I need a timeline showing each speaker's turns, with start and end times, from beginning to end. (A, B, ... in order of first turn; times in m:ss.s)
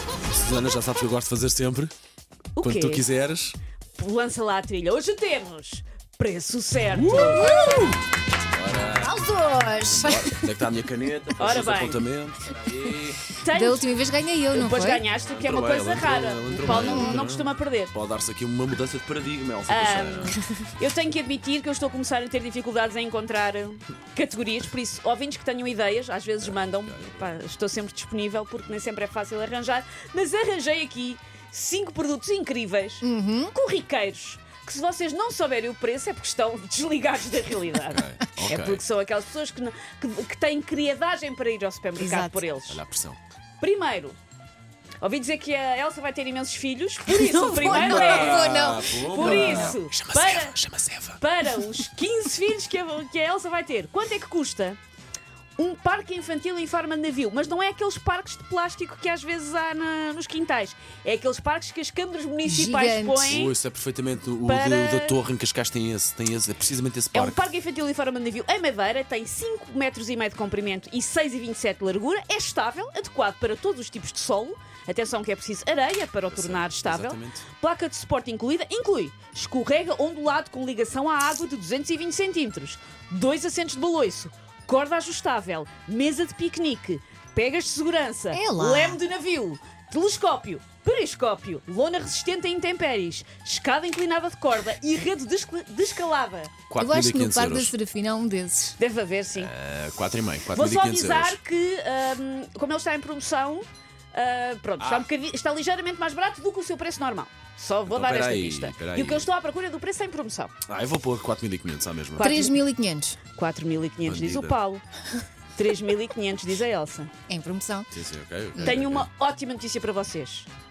0:00.3-0:01.9 A
0:02.6-0:03.0 B
0:02.6-0:03.6 A
0:04.0-0:07.5 B
0:06.9-0:08.0 A
0:07.2-0:08.0 C
0:08.5-0:09.2 A
0:09.0-0:10.5 C
0:09.8-0:13.2 A
0:11.4-0:12.0 B
0:13.4-0:13.9 B
0:13.5-0:15.0 C
0:14.5-0:17.9 B
0:15.2-0:20.4 A
0:16.6-0:17.3 C
0:19.7-0:42.8 B
0:26.4-0:27.3 A
0:33.0-0:33.5 C
0:37.9-0:38.8 A
0:42.0-0:42.4 C
0:42.7-0:43.2 A
0:43.6-0:44.2 B
0:45.0-0:50.6 B
0:47.1-0:49.8 C
0:47.6-0:51.2 A
0:51.2-0:54.8 B
0:55.6-1:03.6 B
1:02.4-1:03.4 C
1:03.3-1:07.5 A
1:04.4-1:05.2 B
1:07.1-1:36.5 B
1:16.3-1:17.5 A
1:28.3-1:29.0 C
1:36.7-1:37.7 A
1:36.8-1:38.8 C
1:38.8-1:39.5 B
1:39.4-1:41.4 A
1:40.5-1:50.5 B
1:44.8-1:45.1 A
1:47.9-1:49.3 A
1:50.7-1:52.3 A
1:52.2-1:52.6 B
1:52.2-1:53.2 C
1:53.4-1:54.8 B
1:54.0-1:54.6 A
1:55.6-1:57.1 B
1:57.3-1:57.9 C
1:57.9-1:59.1 A
1:58.6-2:00.5 B